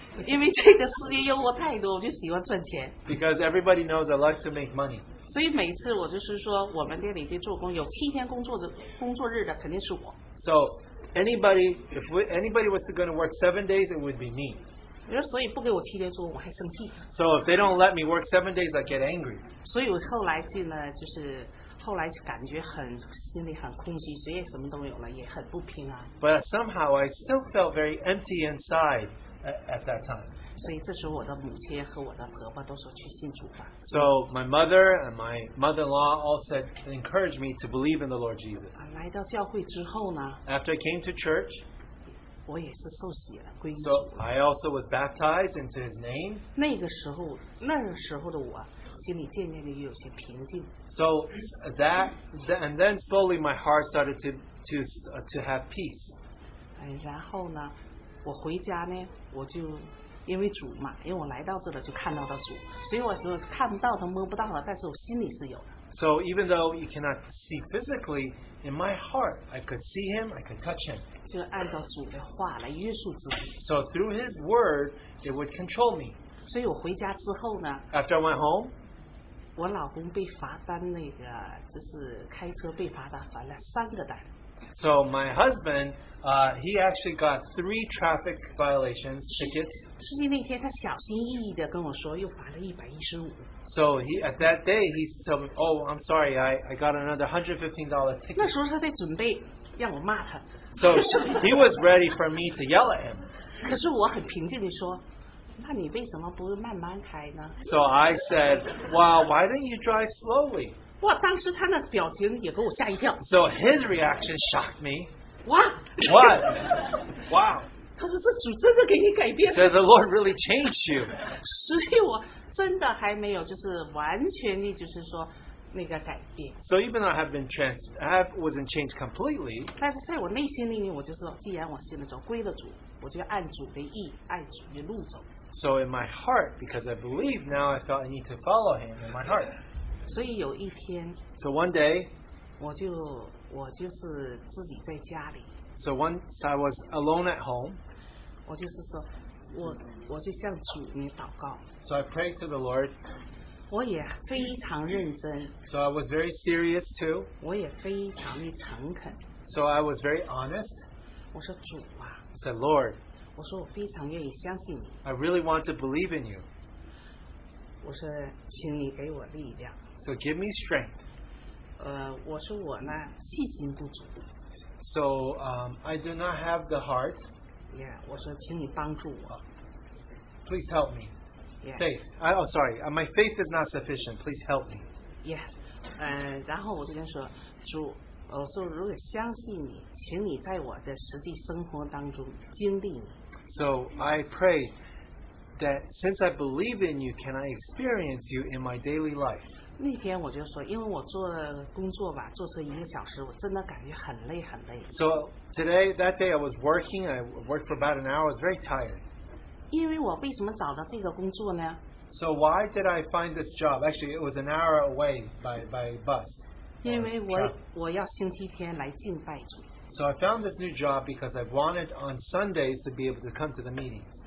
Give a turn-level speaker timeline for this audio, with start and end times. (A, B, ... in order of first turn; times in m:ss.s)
0:00.2-0:03.0 A
0:03.0-0:05.0 B
0:05.3-0:10.2 A
0:10.4-0:14.7 B
0:15.1-0:17.0 A
0:17.1-0:19.4 B
0:19.6-0:26.1 A
0:26.2-0:30.3 B
0:30.6-0:33.8 A
0:33.8-0:38.7 B
0:38.8-0:40.4 A
0:40.4-0:41.6 B
0:42.4-0:44.2 A
0:43.8-0:46.4 B
0:46.6-0:50.7 A
0:50.9-0:56.1 B
0:56.8-1:05.7 A
1:05.9-1:11.0 B
1:11.2-1:13.5 A
1:13.6-1:16.2 B
1:16.5-1:17.8 A
1:17.9-1:18.7 B
1:19.6-1:24.2 A
1:24.7-1:29.8 B
1:29.4-1:33.5 A
1:33.6-1:38.5 B
1:38.4-1:40.4 A
1:40.7-1:43.3 B
1:43.6-1:45.0 A
1:45.6-1:47.6 A
1:47.6-1:50.8 B
1:51.0-1:53.2 A
1:53.2-1:55.1 B
1:55.4-1:56.9 A
1:56.0-1:57.7 B
1:58.0-1:59.8 A
1:59.5-2:01.1 B
2:01.3-2:06.6 A
2:06.6-2:09.7 B
2:09.8-2:15.3 A
2:15.5-2:19.6 B
2:20.1-2:21.2 A
2:21.4-2:22.1 B
2:22.6-2:25.5 A
2:25.8-2:27.8 B
2:28.4-2:31.6 A
2:31.8-2:32.9 B
2:33.7-2:35.5 A
2:35.6-2:37.3 B
2:37.4-2:39.2 A
2:39.4-2:40.8 B
2:41.3-2:42.2 A
2:42.3-2:43.0 B
2:43.4-2:45.0 A
2:45.0-2:46.4 B
2:47.8-2:49.8 A
2:50.0-2:51.0 B
2:51.8-2:54.2 A
2:54.8-2:57.3 B
2:57.7-2:59.4 A
3:00.4-3:01.1 B
3:01.8-3:04.8 B
3:05.2-3:13.1 A
3:13.5-3:14.7 B
3:15.6-3:19.5 B
3:19.8-3:24.9 A
3:24.9-3:29.0 B
3:29.7-3:31.8 A
3:32.1-3:37.5 B
3:36.8-3:39.7 A
3:39.9-3:44.1 B